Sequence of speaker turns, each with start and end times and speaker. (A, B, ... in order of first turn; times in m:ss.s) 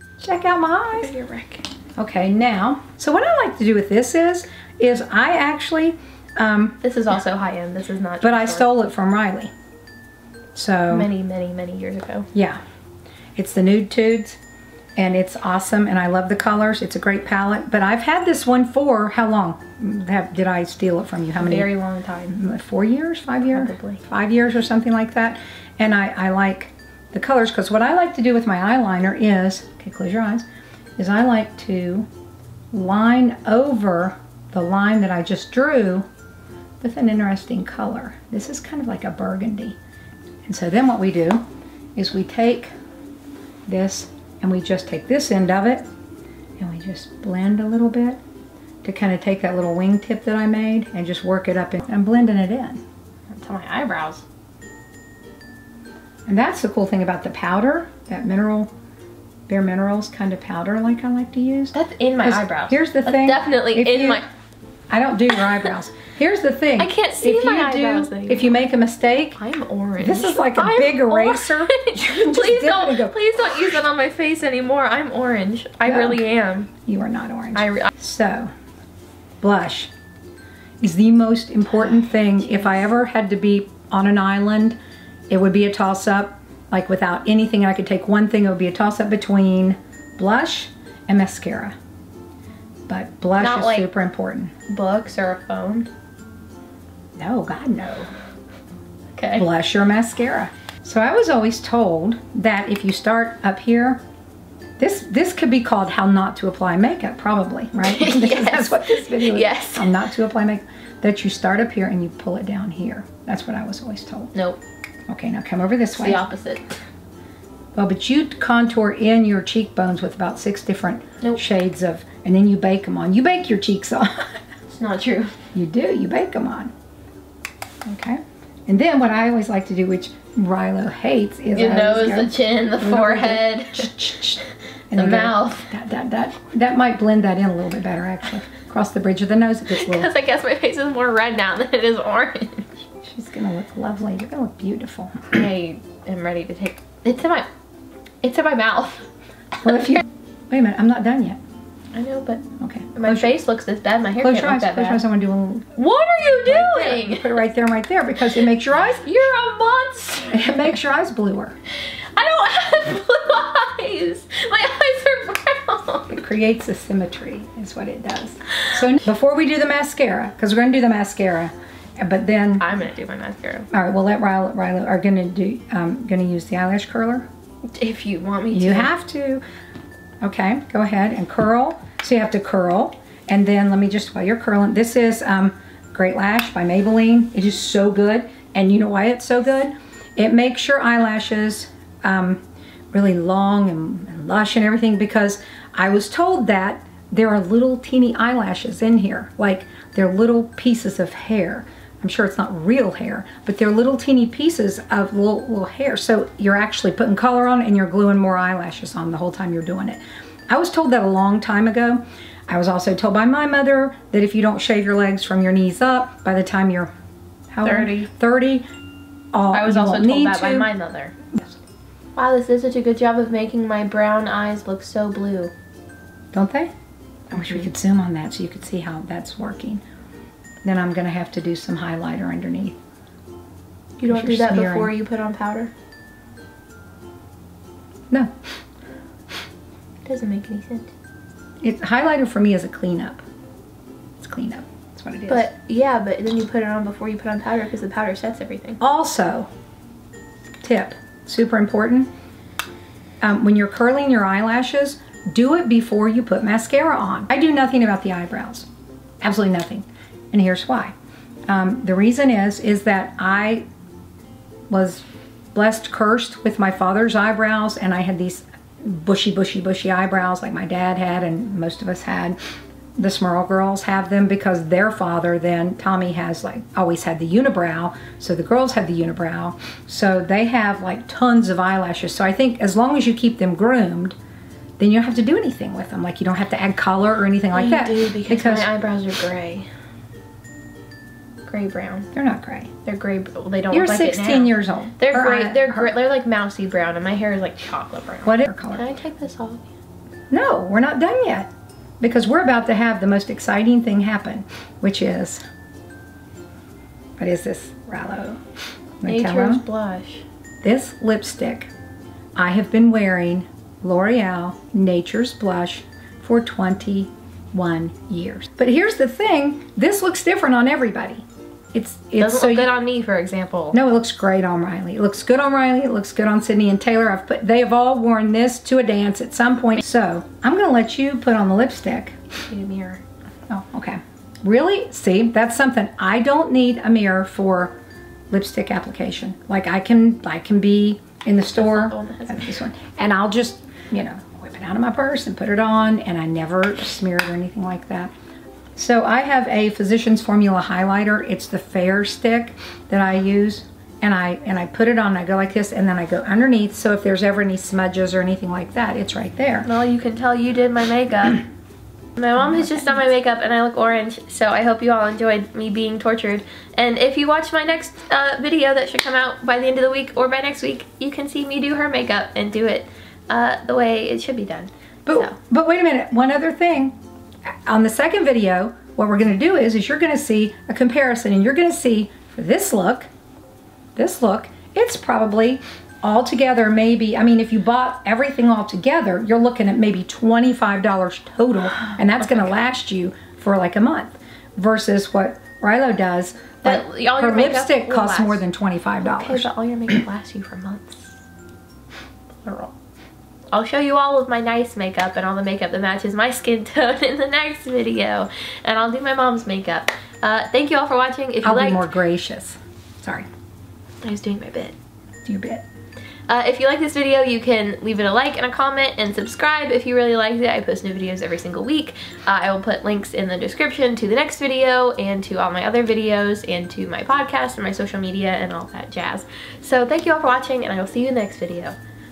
0:00.2-0:01.1 A
0:00.9-0:01.7 B
0:02.0-0:06.8 A
0:06.8-0:08.7 B
0:08.2-0:09.5 A
0:10.6-0:11.1 A
0:10.9-0:12.3 B
0:12.3-0:12.6 A
0:13.4-0:14.4 A
0:15.0-0:21.7 A
0:21.4-0:22.4 B
0:22.3-0:30.4 A
0:23.5-0:24.0 B
0:31.0-0:32.1 A
0:32.7-0:36.0 A
0:36.8-0:39.8 A
0:40.4-0:41.4 A
0:42.0-0:42.7 A
0:43.7-0:45.9 A
0:46.6-0:48.2 A
0:48.8-0:52.8 A
0:53.3-0:54.2 B
0:56.3-0:58.7 A
0:59.5-1:04.2 A
1:01.7-1:04.3 B
1:04.9-1:09.4 A
1:06.8-1:08.6 B
1:09.4-1:16.7 B
1:10.0-1:13.2 A
1:15.8-1:16.2 A
1:16.9-1:18.5 A
1:17.6-1:17.9 B
1:19.4-1:19.9 A
1:20.8-1:24.8 A
1:21.7-1:22.8 B
1:25.3-1:31.8 A
1:32.9-1:34.5 A
1:33.4-1:33.9 B
1:34.7-1:35.9 B
1:37.2-1:38.1 A
1:39.2-1:39.4 B
1:39.4-1:44.0 A
1:44.8-1:54.3 A
1:47.8-1:50.0 B
1:54.3-1:54.6 B
1:55.1-1:56.2 A
1:55.9-1:56.8 B
1:57.8-2:04.3 A
2:04.7-2:05.3 B
2:05.5-2:06.7 A
2:07.9-2:20.1 A
2:11.5-2:13.9 B
2:14.9-2:15.7 B
2:19.7-2:22.7 B
2:23.0-2:25.2 A
2:25.3-2:27.5 B
2:28.2-2:29.1 B
2:29.6-2:31.4 A
2:31.9-2:32.4 B
2:32.6-2:33.4 A
2:33.0-2:35.0 B
2:34.2-2:35.7 A
2:35.8-2:37.4 B
2:36.5-2:39.1 A
2:39.0-2:40.6 B
2:40.3-2:41.6 A
2:42.2-2:46.2 B
2:46.1-2:52.7 A
2:52.6-2:53.7 B
2:53.7-2:57.3 A
2:57.8-2:58.9 B
2:58.5-2:59.4 A
3:00.2-3:12.4 A
3:12.9-3:36.9 A
3:37.5-3:38.6 A
3:37.6-3:38.1 B
3:39.3-3:40.7 A
3:39.5-3:41.1 B
3:42.2-3:45.5 B
3:46.3-3:46.7 A
3:47.3-3:49.8 A
3:47.4-3:47.6 B
3:50.6-3:52.8 A
3:54.0-3:55.7 B
3:54.0-3:54.9 A
4:00.0-4:00.9 B
4:01.6-4:03.2 A
4:04.2-4:05.5 A
4:05.3-4:08.8 B
4:08.8-4:09.5 A
4:10.6-4:12.1 A
4:13.2-4:18.7 A
4:19.2-4:20.9 A
4:21.5-4:23.7 A
4:24.7-4:32.4 A
4:33.0-4:44.2 A
4:44.8-4:48.7 A
4:47.5-4:49.7 B
4:51.4-4:52.1 B
4:52.1-4:52.7 A
4:52.8-4:59.7 B
4:53.7-4:56.0 A
4:58.2-4:58.8 A
5:00.3-5:01.5 A
5:02.0-5:05.4 A
5:07.2-5:08.4 A
5:09.0-5:09.6 A
5:09.1-5:10.2 B
5:10.6-5:11.7 A
5:12.4-5:22.7 A
5:22.2-5:23.8 B
5:23.7-5:32.2 A
5:32.5-5:33.0 B
5:33.5-5:37.7 A
5:38.3-5:48.1 A
5:41.5-5:42.6 B
5:48.8-5:59.7 A
5:59.6-6:01.4 B
6:02.2-6:15.4 B
6:02.4-6:02.8 A
6:15.1-6:16.9 A
6:17.7-6:23.1 A
6:24.0-6:39.5 A
6:36.6-6:38.4 B
6:39.0-6:41.2 B
6:42.4-6:42.7 B
6:43.5-6:51.9 B
6:51.4-6:53.3 A
6:54.0-6:54.7 B
6:55.2-6:55.6 A
6:56.3-7:11.8 B